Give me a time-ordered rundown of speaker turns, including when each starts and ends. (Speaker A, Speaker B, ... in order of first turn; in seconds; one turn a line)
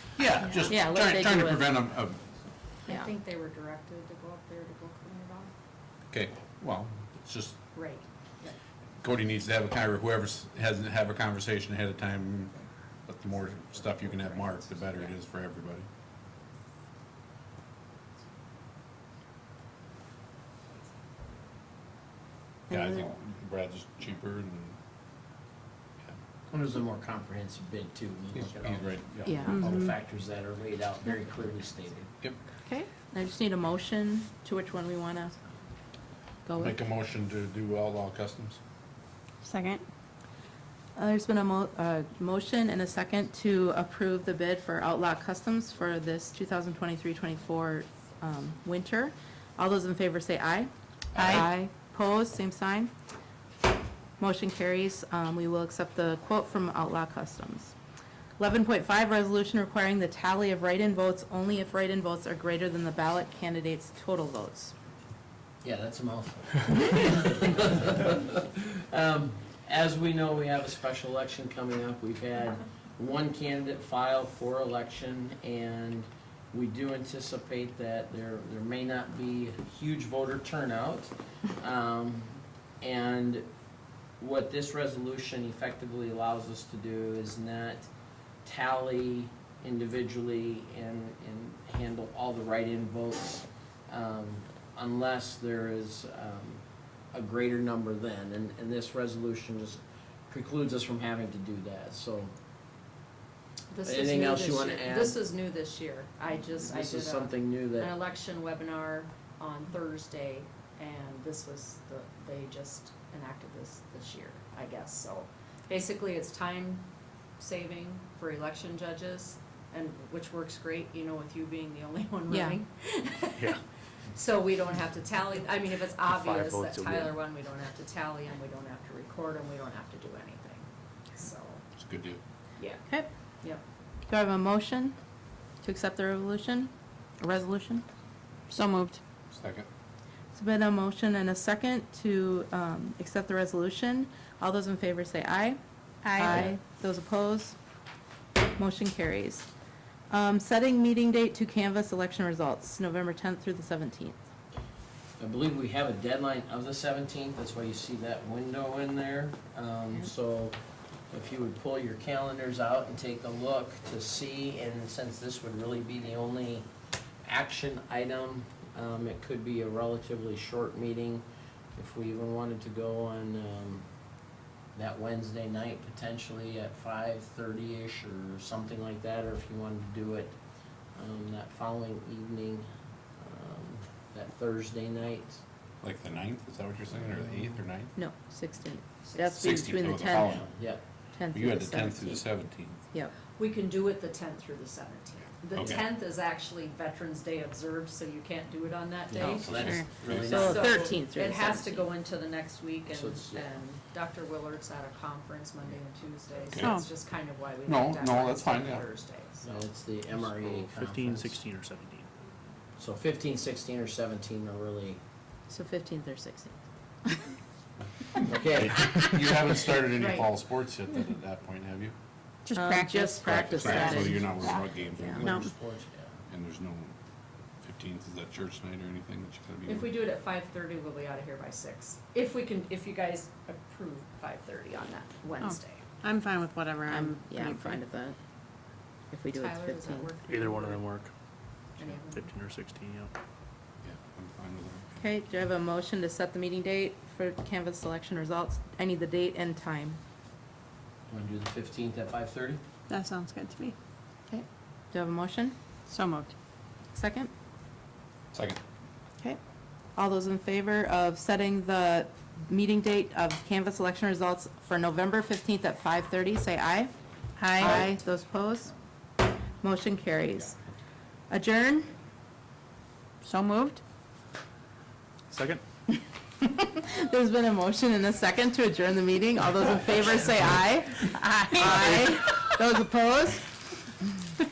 Speaker A: 0.1-2.2
Speaker B: 0.5-1.7
Speaker C: 2.8-5.5
Speaker A: 6.1-7.6
Speaker C: 7.7-8.6
Speaker A: 9.0-15.9
Speaker C: 13.8-15.1
Speaker A: 22.7-24.8
Speaker B: 22.7-23.0
Speaker D: 26.5-32.1
Speaker A: 28.3-29.6
Speaker B: 29.2-29.9
Speaker B: 32.6-35.3
Speaker B: 36.4-36.7
Speaker A: 36.5-38.6
Speaker E: 39.4-39.8
Speaker B: 41.0-52.9
Speaker A: 51.1-51.5
Speaker B: 54.2-57.7
Speaker B: 58.4-64.7
Speaker D: 65.6-83.5
Speaker D: 84.2-87.9
Speaker D: 88.4-102.3
Speaker C: 103.7-116.8
Speaker D: 103.8-105.2
Speaker D: 106.6-107.9
Speaker C: 117.4-123.6
Speaker B: 122.3-122.6
Speaker C: 124.1-131.6
Speaker F: 126.3-127.1
Speaker A: 131.8-132.2
Speaker B: 134.1-135.0
Speaker B: 135.6-137.8
Speaker E: 138.5-139.0
Speaker A: 139.3-139.7
Speaker B: 140.3-145.6
Speaker E: 146.0-146.4
Speaker B: 146.1-147.6
Speaker B: 148.6-149.4
Speaker B: 150.1-154.2
Speaker D: 155.2-160.6
Speaker D: 161.1-166.7
Speaker D: 167.2-171.2
Speaker D: 171.8-173.8
Speaker D: 174.7-180.4
Speaker D: 180.9-182.7
Speaker D: 183.2-185.4
Speaker A: 185.8-187.9
Speaker B: 187.9-190.4
Speaker C: 189.0-189.4
Speaker A: 189.4-190.5
Speaker D: 190.3-190.8
Speaker B: 191.1-192.3
Speaker A: 191.3-192.8
Speaker C: 193.4-209.6
Speaker A: 195.5-195.9
Speaker D: 199.1-200.6
Speaker A: 199.4-200.4
Speaker E: 199.5-199.9
Speaker B: 200.2-201.9
Speaker D: 202.9-203.5
Speaker A: 206.5-206.8
Speaker E: 206.6-206.9
Speaker A: 207.6-208.8
Speaker D: 209.4-211.4
Speaker F: 210.4-212.1
Speaker D: 212.8-215.0
Speaker B: 215.5-217.3
Speaker D: 218.2-218.8
Speaker A: 218.5-221.9
Speaker C: 220.0-220.3
Speaker E: 222.4-224.2
Speaker B: 222.5-225.2
Speaker A: 223.2-225.5
Speaker D: 223.5-226.1
Speaker E: 225.2-225.5
Speaker A: 226.2-226.9
Speaker A: 227.6-229.9
Speaker C: 229.7-235.8
Speaker E: 235.4-237.8
Speaker B: 236.9-238.2
Speaker B: 239.1-240.1
Speaker C: 239.3-240.8
Speaker F: 240.2-241.1
Speaker C: 241.8-242.3
Speaker F: 241.8-243.1
Speaker A: 243.8-245.0
Speaker B: 245.0-250.0
Speaker D: 251.1-252.6
Speaker E: 252.9-253.7
Speaker B: 254.3-255.5
Speaker E: 255.9-256.3
Speaker B: 256.9-257.3
Speaker A: 258.3-258.6
Speaker B: 259.9-268.7
Speaker E: 267.6-267.8
Speaker B: 269.6-270.6
Speaker B: 271.3-271.9
Speaker E: 273.2-273.8
Speaker F: 275.3-275.6
Speaker B: 276.4-283.5